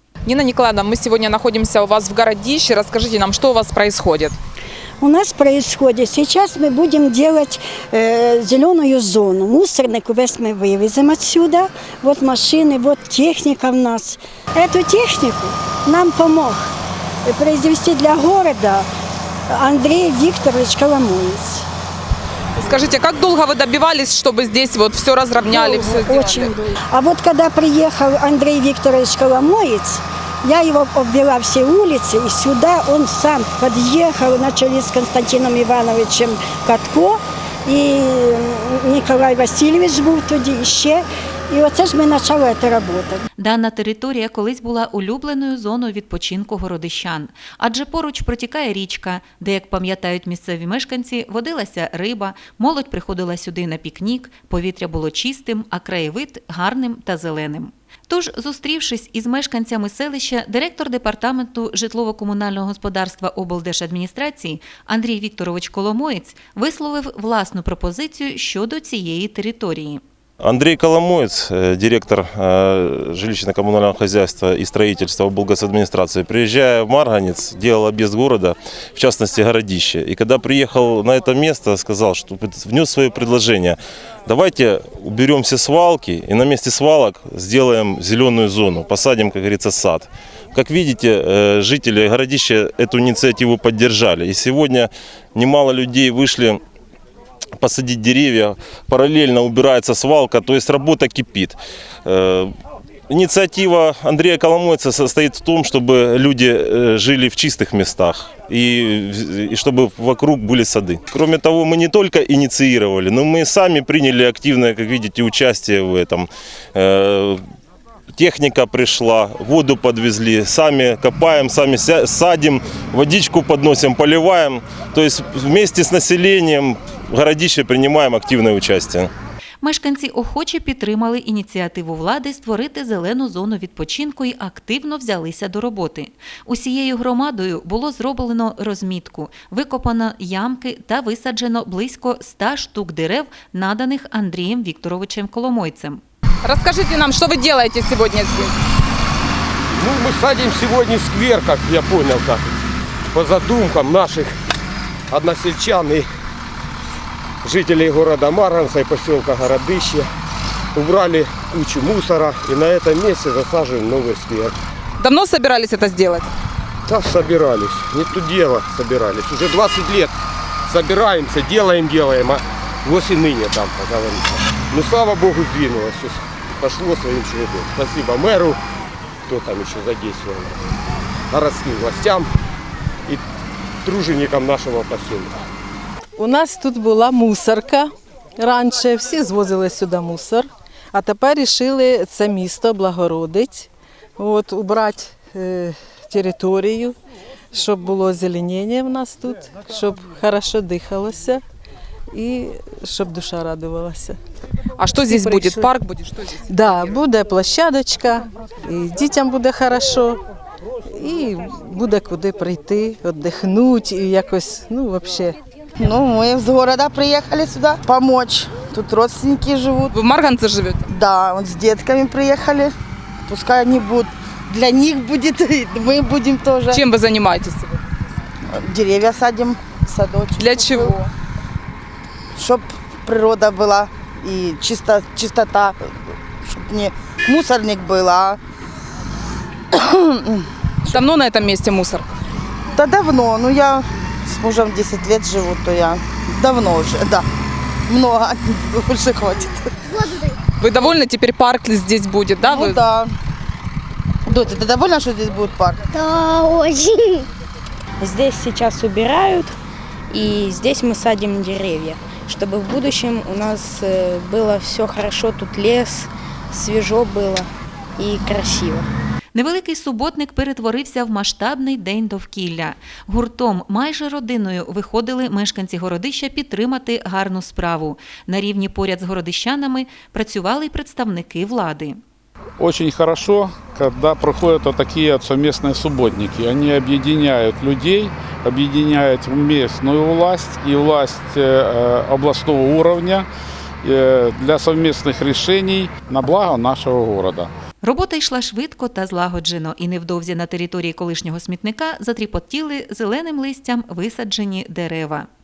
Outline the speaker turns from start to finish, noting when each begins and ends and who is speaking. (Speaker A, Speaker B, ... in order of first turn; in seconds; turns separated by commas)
Speaker A: 0.2-4.4, Speaker B: 5.0-16.6, Speaker B: 17.2-18.9, Speaker B: 19.5-21.6, Speaker A: 22.6-26.5, Speaker B: 25.5-43.2, Speaker C: 43.4-70.0, Speaker D: 70.4-96.6, Speaker D: 97.6-102.5, Speaker D: 103.1-117.4, Speaker D: 118.1-129.1, Speaker C: 129.6-146.0, Speaker A: 146.4-148.6, Speaker E: 149.7-152.5, Speaker E: 153.1-154.4, Speaker E: 155.1-156.1, Speaker E: 157.4-160.1, Speaker E: 160.7-164.6, Speaker A: 165.0-166.3, Speaker E: 166.9-170.1, Speaker E: 170.7-178.6, Speaker E: 179.3-180.6, Speaker E: 181.3-182.3, Speaker E: 183.8-185.4, Speaker F: 186.2-196.9, Speaker F: 197.5-201.4, Speaker F: 202.1-204.2, Speaker A: 204.8-206.4, Speaker F: 205.0-205.7, Speaker F: 206.5-210.2, Speaker F: 210.9-215.4, Speaker G: 215.8-219.9, Speaker A: 219.9-220.9, Speaker G: 220.9-222.7, Speaker G: 223.3-226.8, Speaker A: 226.7-227.8, Speaker G: 228.5-231.1, Speaker A: 230.4-230.9, Speaker G: 232.3-235.8, Speaker G: 236.4-238.4, Speaker G: 239.7-241.0, Speaker A: 240.9-242.1, Speaker G: 242.7-247.2, Speaker G: 247.9-249.6, Speaker A: 250.6-252.8, Speaker G: 252.4-253.1, Speaker G: 254.3-255.8, Speaker H: 258.0-259.5, Speaker H: 260.1-268.9, Speaker C: 269.3-282.0, Speaker I: 282.6-293.3, Speaker I: 293.8-297.5, Speaker C: 297.8-305.3